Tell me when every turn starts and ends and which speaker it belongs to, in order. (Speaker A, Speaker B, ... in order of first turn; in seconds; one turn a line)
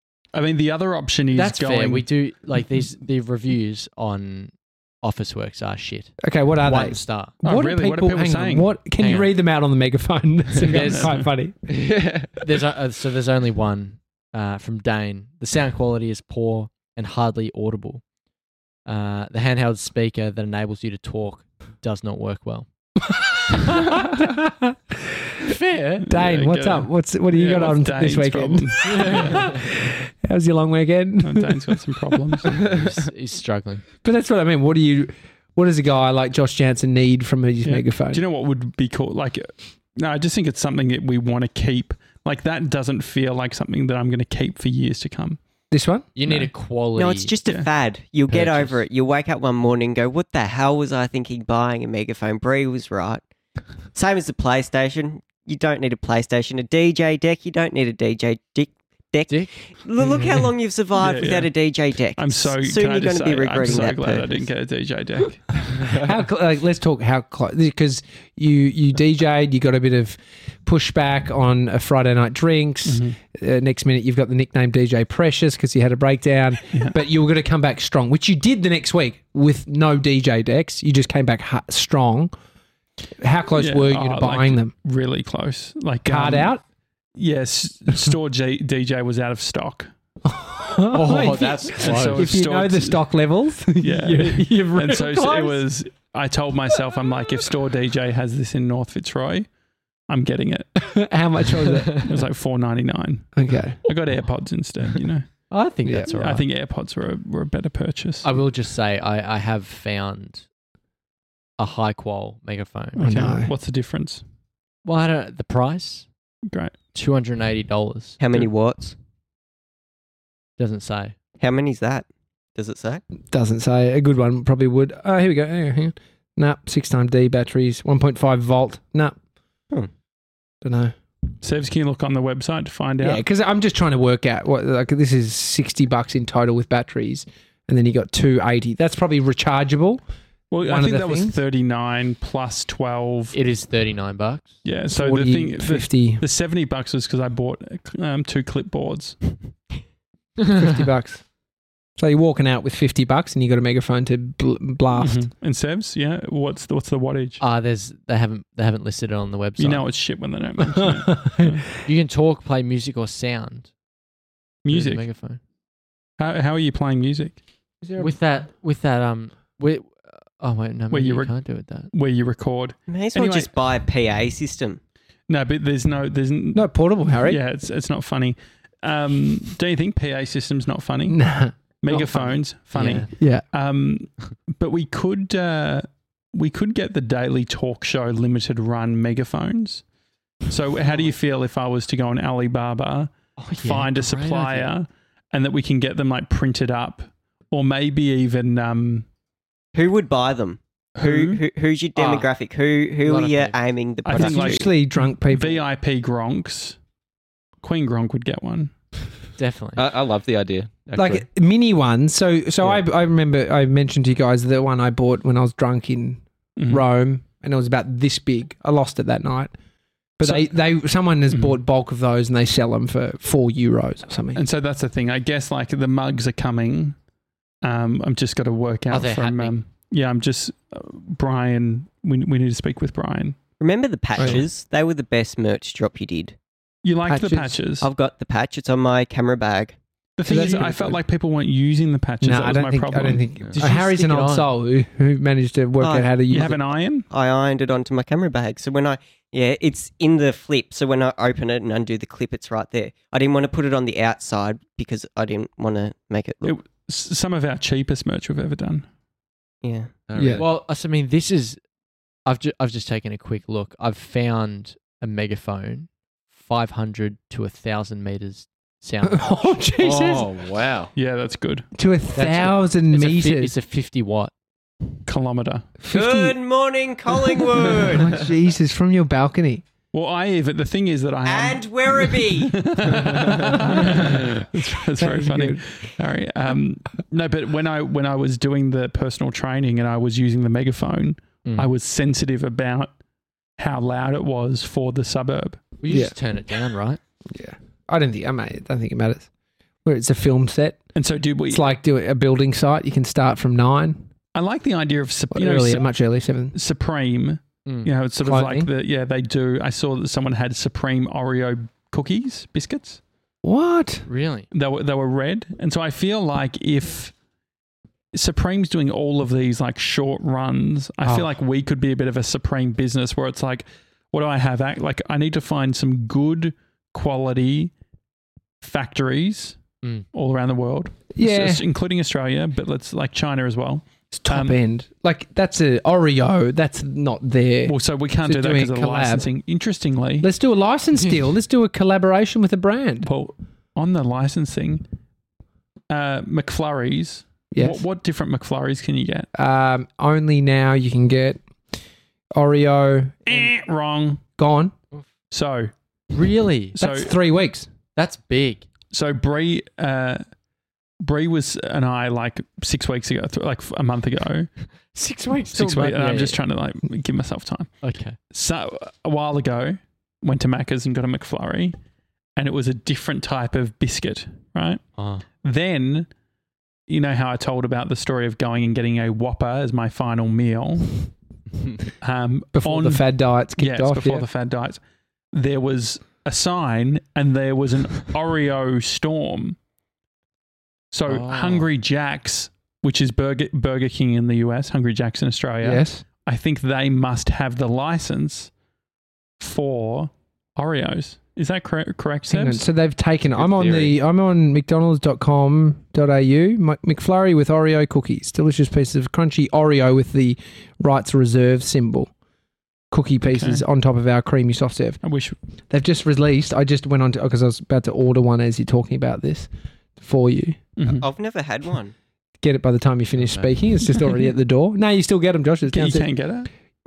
Speaker A: 0.3-2.0
Speaker B: 1.3-7.3
Speaker C: 6.2-11.7
Speaker A: 7.4-8.7
Speaker B: 9.0-9.3
Speaker B: 10.6-11.2
Speaker A: 10.6-11.3
Speaker D: 11.7-12.4
Speaker B: 12.4-18.0
Speaker B: 18.9-22.7
Speaker C: 23.5-25.1
Speaker B: 23.7-24.0
Speaker B: 25.4-26.1
Speaker A: 26.0-29.6
Speaker C: 26.1-31.7
Speaker B: 28.8-29.6
Speaker A: 31.2-32.6
Speaker B: 32.5-33.8
Speaker C: 34.0-38.2
Speaker A: 37.6-45.4
Speaker C: 45.7-46.1
Speaker B: 46.1-47.3
Speaker E: 47.0-53.2
Speaker B: 48.3-48.8
Speaker E: 53.9-64.4
Speaker B: 59.3-59.5
Speaker A: 60.9-61.5
Speaker A: 62.1-65.5
Speaker C: 65.9-82.3
Speaker A: 72.9-73.2
Speaker C: 83.2-84.7
Speaker A: 83.6-86.5
Speaker C: 86.0-86.6
Speaker A: 87.1-89.9
Speaker C: 90.2-95.6
Speaker B: 90.9-92.4
Speaker A: 91.8-93.0
Speaker A: 93.8-99.5
Speaker A: 100.1-100.7
Speaker C: 100.8-102.0
Speaker A: 102.0-105.4
Speaker C: 103.3-103.8
Speaker B: 105.5-106.5
Speaker C: 105.8-106.1
Speaker A: 106.0-108.3
Speaker B: 108.2-110.4
Speaker B: 111.6-113.4
Speaker A: 113.0-114.2
Speaker C: 113.0-113.5
Speaker B: 114.8-116.1
Speaker A: 116.5-116.7
Speaker B: 116.9-118.2
Speaker E: 118.2-118.9
Speaker B: 120.6-121.1
Speaker E: 121.4-123.0
Speaker C: 123.3-129.2
Speaker C: 130.6-130.9
Speaker A: 131.4-133.2
Speaker C: 133.0-140.0
Speaker A: 140.5-143.4
Speaker C: 140.6-141.4
Speaker B: 143.3-144.5
Speaker A: 144.6-149.4
Speaker C: 144.9-146.2
Speaker C: 150.5-151.2
Speaker C: 152.0-155.3
Speaker A: 154.9-157.4
Speaker B: 157.4-159.9
Speaker A: 159.6-161.6
Speaker C: 160.7-161.6
Speaker B: 161.8-163.7
Speaker A: 164.6-165.1
Speaker B: 164.7-165.4
Speaker A: 166.2-167.4
Speaker C: 167.8-168.1
Speaker B: 168.0-171.9
Speaker A: 170.9-173.5
Speaker E: 172.9-174.8
Speaker A: 175.3-176.7
Speaker C: 176.5-177.4
Speaker A: 177.2-181.2
Speaker C: 181.1-182.2
Speaker A: 181.8-189.8
Speaker B: 182.7-183.1
Speaker C: 183.2-183.4
Speaker A: 190.4-199.1
Speaker B: 193.4-194.7
Speaker E: 199.7-204.7
Speaker A: 200.9-201.4
Speaker B: 201.9-202.3
Speaker B: 203.0-203.6
Speaker A: 204.0-206.8
Speaker C: 204.1-205.6
Speaker A: 207.6-208.7
Speaker B: 209.4-209.8
Speaker D: 209.8-211.2
Speaker C: 210.9-219.5
Speaker A: 216.6-216.8
Speaker C: 220.2-224.4
Speaker A: 221.3-221.6
Speaker A: 224.3-226.9
Speaker A: 227.6-233.4
Speaker B: 228.9-229.6
Speaker E: 233.6-236.4
Speaker C: 234.2-234.4
Speaker A: 236.8-237.9
Speaker C: 237.1-237.6
Speaker E: 237.8-239.8
Speaker A: 240.2-243.3
Speaker C: 240.2-241.0
Speaker C: 242.2-246.6
Speaker B: 243.5-244.5
Speaker E: 245.8-246.5
Speaker A: 246.2-247.1
Speaker E: 247.1-256.5
Speaker A: 256.4-258.9
Speaker E: 259.6-259.9
Speaker D: 260.1-260.5
Speaker C: 260.2-260.4
Speaker B: 260.3-261.6
Speaker B: 262.2-269.4
Speaker C: 269.0-270.3
Speaker D: 269.8-270.9
Speaker A: 270.9-271.6
Speaker C: 271.8-273.5
Speaker B: 272.1-274.3
Speaker A: 275.1-275.7
Speaker C: 275.8-276.4
Speaker E: 275.9-278.2
Speaker C: 277.6-279.6
Speaker A: 279.9-292.9
Speaker E: 281.2-282.6
Speaker C: 284.9-285.6
Speaker B: 291.4-291.7
Speaker A: 293.6-295.6
Speaker B: 295.8-297.0
Speaker C: 297.3-299.3
Speaker C: 299.8-300.8
Speaker A: 300.9-301.7
Speaker C: 301.5-304.1
Speaker A: 304.3-305.9
Speaker C: 305.3-306.5
Speaker A: 306.5-313.0
Speaker B: 307.6-307.9
Speaker C: 308.2-308.7
Speaker C: 313.4-314.1
Speaker B: 314.1-314.5
Speaker A: 314.5-317.1
Speaker A: 318.1-327.7
Speaker A: 328.6-329.6
Speaker A: 330.1-334.5
Speaker C: 331.1-331.6
Speaker C: 334.2-339.3
Speaker A: 337.6-340.3
Speaker C: 340.2-343.1
Speaker A: 343.0-344.8
Speaker A: 345.9-349.3
Speaker C: 347.5-347.8
Speaker C: 349.3-351.4
Speaker C: 352.3-353.5
Speaker A: 353.2-354.2
Speaker C: 354.4-354.7
Speaker A: 355.3-355.7
Speaker B: 356.1-356.8
Speaker A: 356.7-357.2
Speaker C: 356.8-357.7
Speaker B: 357.9-358.7
Speaker A: 358.9-360.2
Speaker A: 361.0-364.5
Speaker B: 364.9-366.4
Speaker A: 365.5-367.7
Speaker B: 367.8-368.2
Speaker A: 368.3-371.7
Speaker A: 372.4-374.8
Speaker B: 375.0-375.2
Speaker A: 375.4-376.1
Speaker A: 376.9-381.1
Speaker A: 382.0-384.8
Speaker C: 382.5-384.2
Speaker A: 385.3-389.6
Speaker A: 390.9-398.5
Speaker B: 391.1-391.7
Speaker C: 395.6-396.0
Speaker A: 399.4-402.6
Speaker C: 402.3-412.1
Speaker D: 403.3-403.9
Speaker C: 412.9-415.0
Speaker A: 413.3-413.6
Speaker A: 415.0-415.4
Speaker C: 415.7-420.6
Speaker A: 420.8-421.1
Speaker E: 420.9-421.9
Speaker C: 422.4-426.1
Speaker D: 423.2-423.5
Speaker A: 425.7-426.5